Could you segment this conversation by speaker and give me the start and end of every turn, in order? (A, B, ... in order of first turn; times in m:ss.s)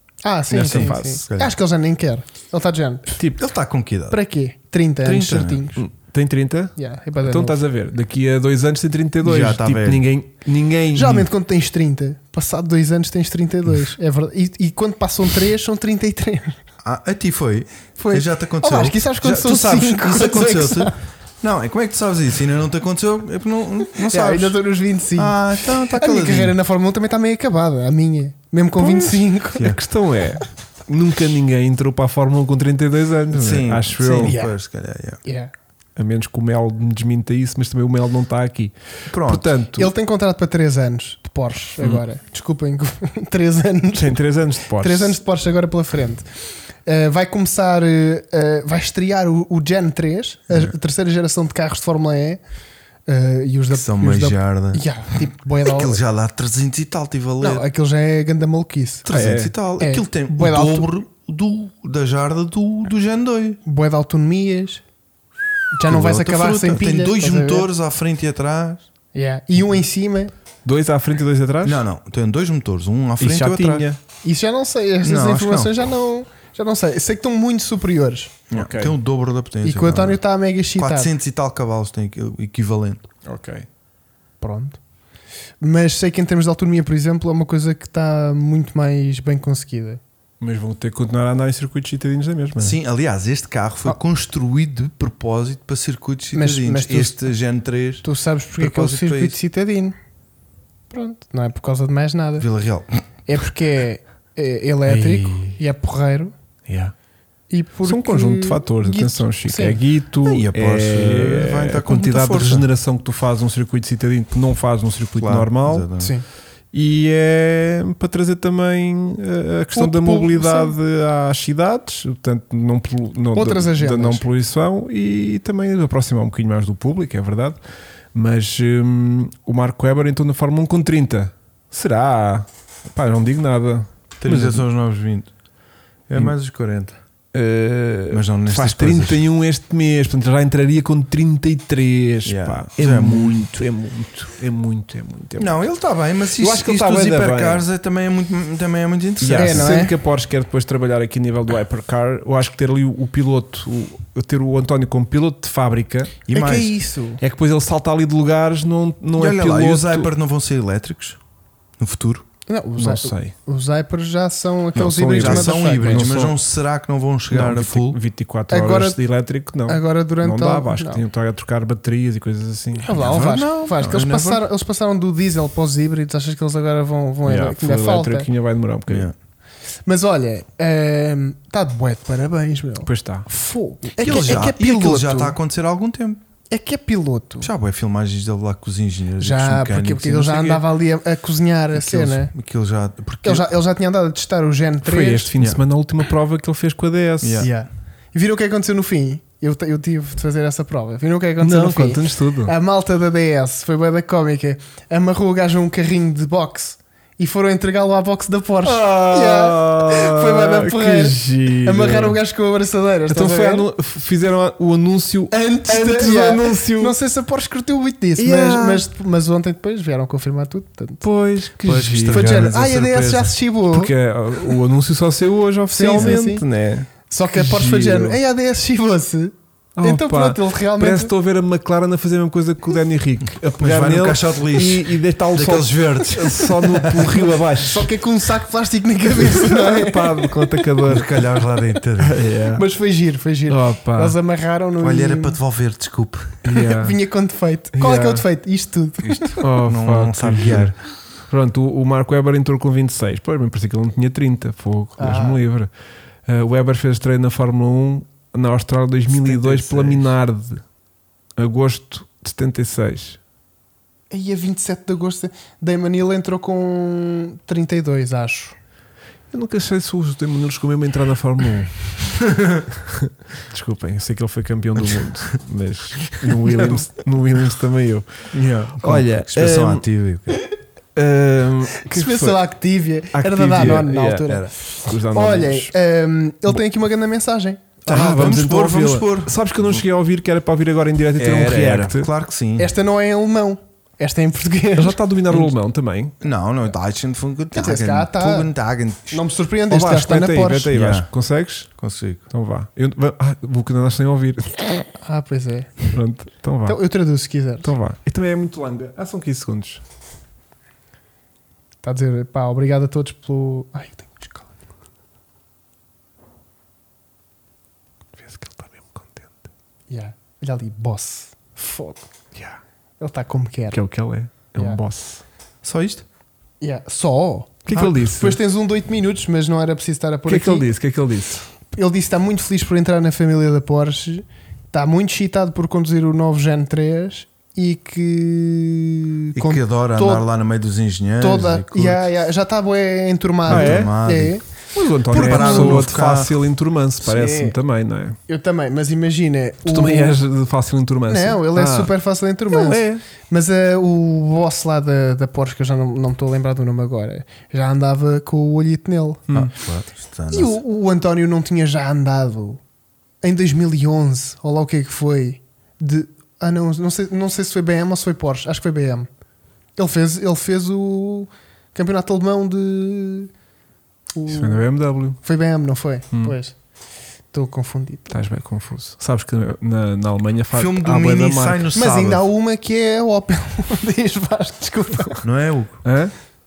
0:00.2-0:03.1 A
0:00.5-0:01.2 B
0:00.6-0:01.5 C
0:03.1-0:03.4 B
0:03.4-0:04.2 C
0:04.1-0:05.8 A
0:05.0-0:05.8 C
0:05.8-0:11.3 B
0:06.8-0:07.6 A
0:09.2-0:10.0 C
0:10.9-0:16.6 A
0:16.8-0:24.6 C
0:18.0-0:21.0 A
0:24.1-0:29.8 A
0:25.2-0:26.6 C
0:28.8-0:34.4 B
0:33.3-0:35.2 C
0:34.2-0:34.6 A
0:35.2-0:35.5 A
0:36.0-0:39.9 B
0:39.1-0:39.5 C
0:39.8-0:44.2 A
0:44.0-0:45.2 B
0:44.8-0:46.3 A
0:46.9-0:52.4 A
0:53.1-0:56.0 A
0:53.7-0:57.6 C
0:57.4-0:59.1 A
0:59.1-1:03.6 C
0:59.1-0:59.5 B
0:59.8-1:00.9 A
1:03.6-1:04.8 A
1:05.7-1:07.7 A
1:05.9-1:08.9 C
1:09.1-1:10.3 A
1:10.6-1:11.8 B
1:11.6-1:13.9 C
1:13.2-1:14.0 B
1:14.2-1:18.4 A
1:15.0-1:15.7 C
1:18.5-1:20.2 C
1:18.5-1:19.0 B
1:19.6-1:21.1 A
1:20.8-1:23.0 C
1:23.3-1:23.7 B
1:24.4-1:24.8 A
1:25.6-1:30.0 A
1:30.4-1:32.8 B
1:32.6-1:38.1 C
1:36.3-1:37.3 A
1:38.0-1:40.0 A
1:38.6-1:39.4 C
1:40.9-1:42.5 A
1:42.4-1:43.0 C
1:43.3-1:46.3 A
1:44.9-1:45.6 B
1:46.7-1:46.9 B
1:47.5-1:49.8 A
1:47.8-1:55.9 B
1:50.2-1:52.7 C
1:55.2-1:56.1 C
1:56.0-1:56.2 A
1:56.7-2:07.6 B
1:59.8-2:00.8 A
2:03.3-2:04.3 A
2:08.1-2:14.6 B
2:14.2-2:15.3 C
2:16.1-2:17.0 C
2:17.3-2:25.5 B
2:18.1-2:19.2 C
2:22.2-2:23.4 C
2:25.4-2:29.8 C
2:26.4-2:27.7 B
2:29.2-2:36.2 B
2:29.4-2:30.0 A
2:36.3-2:36.8 C
2:36.3-2:37.2 A
2:37.2-2:40.1 B
2:39.2-2:41.2 C
2:41.8-2:42.3 C
2:42.5-2:46.1 A
2:42.8-2:43.3 B
2:44.8-2:46.4 B
2:44.9-2:48.0 C
2:47.3-2:52.9 B
2:48.5-2:49.0 A
2:49.7-2:51.0 A
2:52.8-2:58.3 A
2:53.0-2:54.4 C
2:57.2-2:59.1 B
2:58.9-2:59.1 C
2:59.9-3:05.4 A
3:02.8-3:03.3 B
3:04.0-3:06.2 C
3:04.1-3:04.4 B
3:06.5-3:07.5 A
3:07.4-3:10.6 C
3:09.2-3:12.3 A
3:11.7-3:13.5 C
3:13.2-3:15.3 A
3:14.8-3:17.5 B
3:17.2-3:17.5 C
3:17.4-3:33.7 A
3:21.4-3:22.5 B
3:28.6-3:32.2 B
3:33.1-3:37.0 B
3:35.3-3:41.0 A
3:38.2-3:38.9 B
3:41.0-3:42.4 B
3:41.6-3:43.3 C
3:42.1-3:43.9 A
3:43.7-3:48.2 B
3:45.7-3:46.4 A
3:47.1-3:51.1 A
3:49.8-3:57.9 B
3:53.6-3:57.3 C
3:57.6-4:00.5 A
3:59.2-4:01.3 B
4:00.8-4:02.2 C
4:02.0-4:02.6 B
4:02.6-4:05.4 A
4:03.5-4:04.2 B
4:04.8-4:06.4 C
4:06.4-4:07.0 B
4:06.5-4:09.4 A
4:07.7-4:08.2 B
4:09.0-4:10.8 C
4:09.4-4:10.8 B
4:11.3-4:15.7 B
4:15.0-4:15.4 A
4:16.3-4:20.6 B
4:19.1-4:20.1 C
4:21.4-4:23.2 B
4:24.1-4:28.6 A
4:29.3-4:31.9 B
4:32.3-4:32.6 C
4:32.7-4:39.8 B
4:36.1-4:36.9 C
4:38.3-4:40.4 C
4:41.0-4:42.4 B
4:41.8-4:47.8 A
4:43.1-4:45.7 B
4:44.2-4:44.5 C
4:47.9-4:49.8 C
4:47.9-4:52.1 B
4:51.2-4:52.7 C
4:52.6-4:55.0 A
4:54.8-4:56.2 B
4:56.2-4:59.2 C
4:57.5-4:58.5 A
4:59.1-5:00.7 A
4:59.7-5:01.7 B
5:00.7-5:01.1 C
5:01.8-5:02.2 C
5:02.3-5:04.9 B
5:05.0-5:05.9 A
5:05.9-5:06.8 B
5:06.7-5:07.7 A
5:07.6-5:09.8 B
5:11.8-5:14.5 A
5:18.2-5:19.4 B
5:19.9-5:22.1 A
5:22.4-5:22.6 B
5:23.0-5:23.8 A
5:23.7-5:25.2 B
5:25.6-5:26.0 C
5:26.6-5:30.7 A
5:27.7-5:28.4 B
5:30.3-5:31.4 B
5:31.7-5:40.3 A
5:39.4-5:42.0 C
5:41.2-5:44.4 A
5:43.5-5:44.4 C
5:43.5-5:44.0 B
5:44.7-5:48.2 B
5:45.1-5:46.4 C
5:45.1-5:45.9 A
5:47.0-5:47.6 A
5:48.3-5:50.2 A
5:49.7-5:51.9 B
5:51.1-5:59.2 A
5:52.5-5:53.0 B
5:59.3-6:00.6 C
6:00.3-6:02.6 A
6:03.2-6:09.1 A
6:09.8-6:13.3 A
6:14.1-6:14.6 A
6:14.3-6:15.2 B
6:15.2-6:16.6 A
6:17.3-6:18.1 A
6:18.1-6:21.7 B
6:20.5-6:22.2 C
6:21.7-6:25.2 A
6:25.2-6:25.8 C
6:25.8-6:26.1 B